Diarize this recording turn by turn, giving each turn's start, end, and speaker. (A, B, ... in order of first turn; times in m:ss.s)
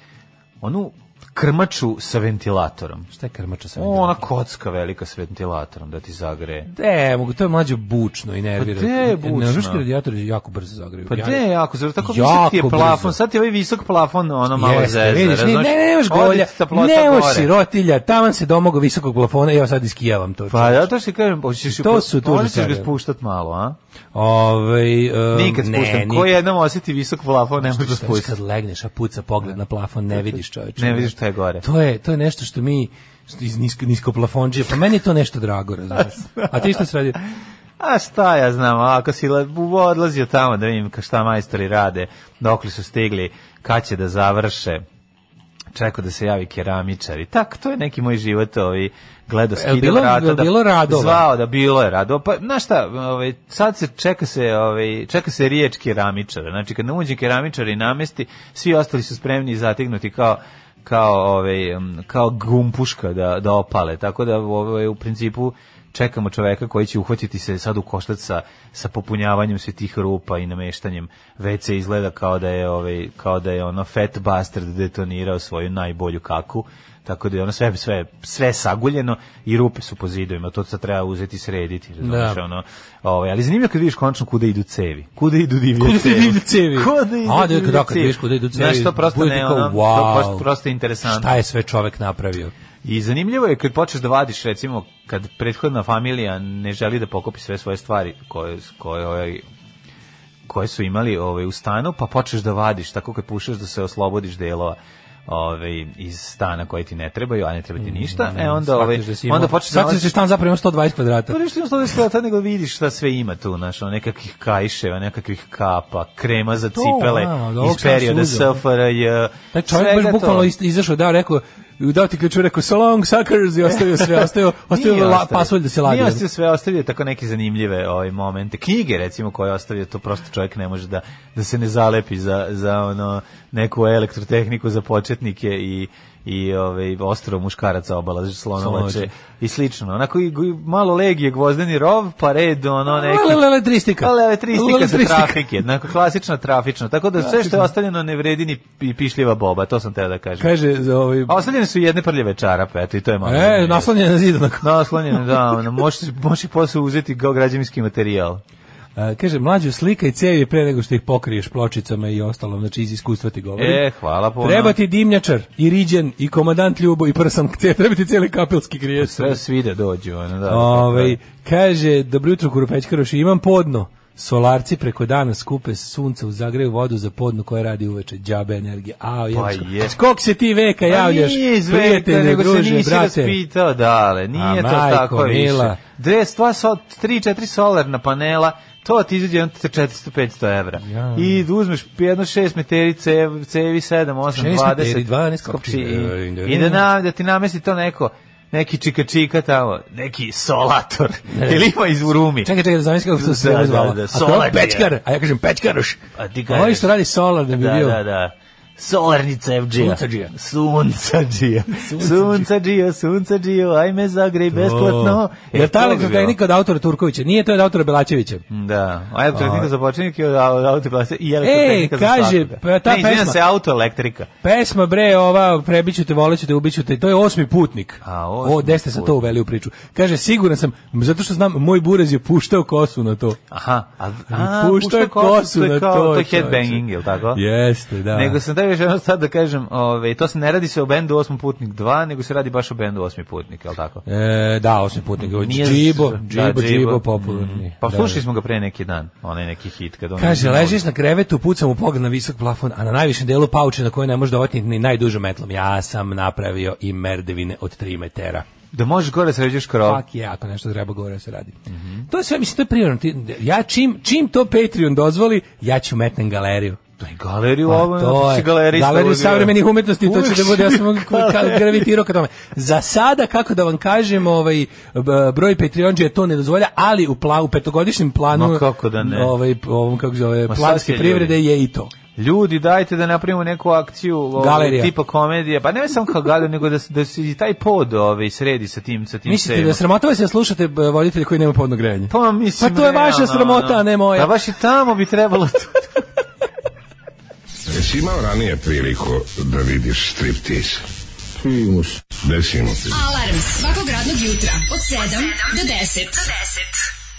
0:00.6-0:03.1 A
0:03.1-0:04.2 B
0:03.8-0:06.7 A
0:06.7-0:11.4 B
0:08.6-0:09.8 A
0:11.1-0:17.5 A
0:12.0-0:13.2 B
0:14.5-0:20.9 B
0:20.5-0:23.8 A
0:21.7-0:22.9 B
0:24.2-0:26.3 B
0:25.3-0:28.4 A
0:27.6-0:37.2 B
0:30.8-0:31.6 A
0:36.0-0:36.8 A
0:37.8-0:44.8 A
0:45.7-1:31.4 A
0:49.6-0:51.2 B
1:22.0-1:22.4 B
1:25.8-1:30.5 B
1:31.0-1:32.5 B
1:32.8-1:39.4 A
1:40.5-1:50.1 A
1:47.8-1:51.4 B
1:51.3-2:00.5 A
1:56.8-1:58.6 B
1:59.5-2:06.2 B
2:03.7-2:30.6 A
2:18.6-2:19.1 B
2:22.9-2:25.4 B
2:27.2-2:27.6 B
2:30.4-2:31.4 B
2:31.3-2:33.9 A
2:33.2-2:35.2 B
2:34.6-2:38.4 A
2:39.0-2:43.8 B
2:43.6-2:44.8 A
2:44.4-2:49.4 B
2:49.0-2:51.2 A
2:50.5-3:03.4 B
2:59.3-3:00.0 A
3:00.9-3:22.6 A
3:04.4-3:05.8 B
3:10.8-3:11.4 B
3:14.3-3:16.8 B
3:21.3-3:28.0 B
3:23.1-3:25.0 A
3:26.2-3:27.0 A
3:27.5-3:36.4 A
3:29.8-3:30.3 B
3:31.7-3:32.5 B
3:34.5-3:38.4 B
3:38.5-3:44.3 A
3:39.4-3:39.7 B
3:41.4-3:43.4 B
3:44.4-3:53.4 B
3:48.0-3:49.2 A
3:53.5-3:57.4 A
3:54.3-3:58.4 B
3:58.1-4:04.0 A
4:04.1-4:08.2 B
4:05.2-4:10.8 A
4:10.2-4:18.4 B
4:18.7-4:20.0 A
4:19.8-4:21.6 B
4:21.7-4:22.0 A
4:22.1-4:26.8 B
4:27.0-4:31.9 A
4:27.7-4:41.9 B
4:38.3-4:39.4 A
4:40.5-4:41.4 A
4:42.2-4:49.8 A
4:44.4-4:44.9 B
4:49.3-4:54.3 B
4:52.1-4:56.0 A
4:57.7-5:00.8 C
5:01.4-5:03.0 C
5:02.9-5:06.7 D